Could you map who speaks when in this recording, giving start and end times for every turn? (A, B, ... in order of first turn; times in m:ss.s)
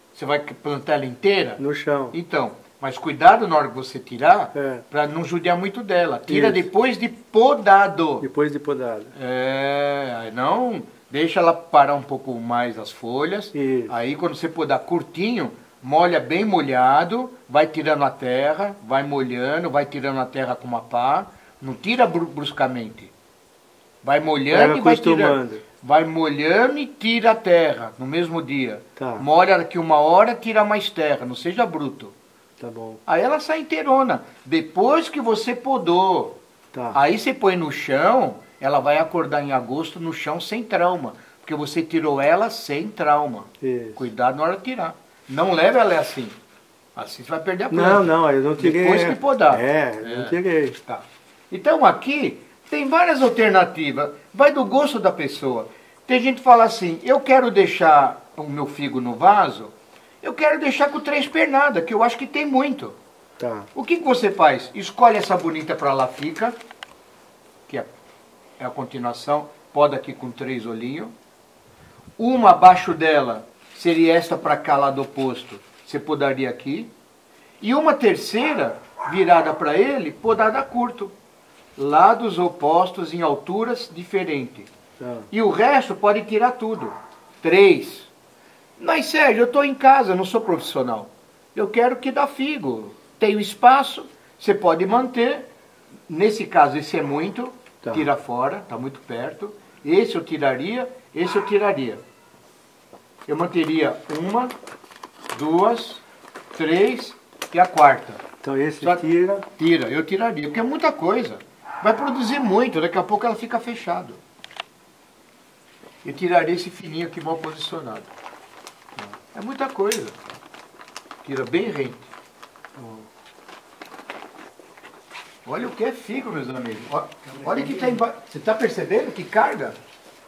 0:00.2-0:01.6 A
0:01.6-0:02.2 B
0:02.1-0:08.2 A
0:04.5-0:04.8 B
0:06.3-0:06.7 B
0:08.2-0:09.1 B
0:09.2-0:23.1 A
0:13.5-0:13.9 B
0:24.0-0:32.1 A
0:24.5-0:25.6 B
0:29.0-0:29.3 B
0:32.6-0:33.0 B
0:33.1-0:36.4 A
0:36.9-0:46.4 A
0:43.6-0:44.0 B
0:47.0-1:03.0 A
0:47.7-0:50.8 B
1:03.4-1:03.7 B
1:03.7-1:06.6 A
1:08.6-1:11.1 A
1:12.2-1:16.9 A
1:17.6-1:21.1 A
1:21.8-1:24.7 A
1:25.0-1:25.3 B
1:25.3-1:28.1 A
1:28.8-1:35.5 A
1:36.1-1:42.0 A
1:37.8-1:38.1 B
1:43.3-1:44.5 A
1:45.3-1:46.0 A
1:46.5-1:48.2 A
1:48.4-1:49.4 B
1:49.6-1:54.2 A
1:56.0-1:58.1 A
1:59.3-2:00.2 A
2:01.2-2:02.1 A
2:02.8-2:03.1 B
2:05.5-2:09.8 A
2:07.3-2:08.0 B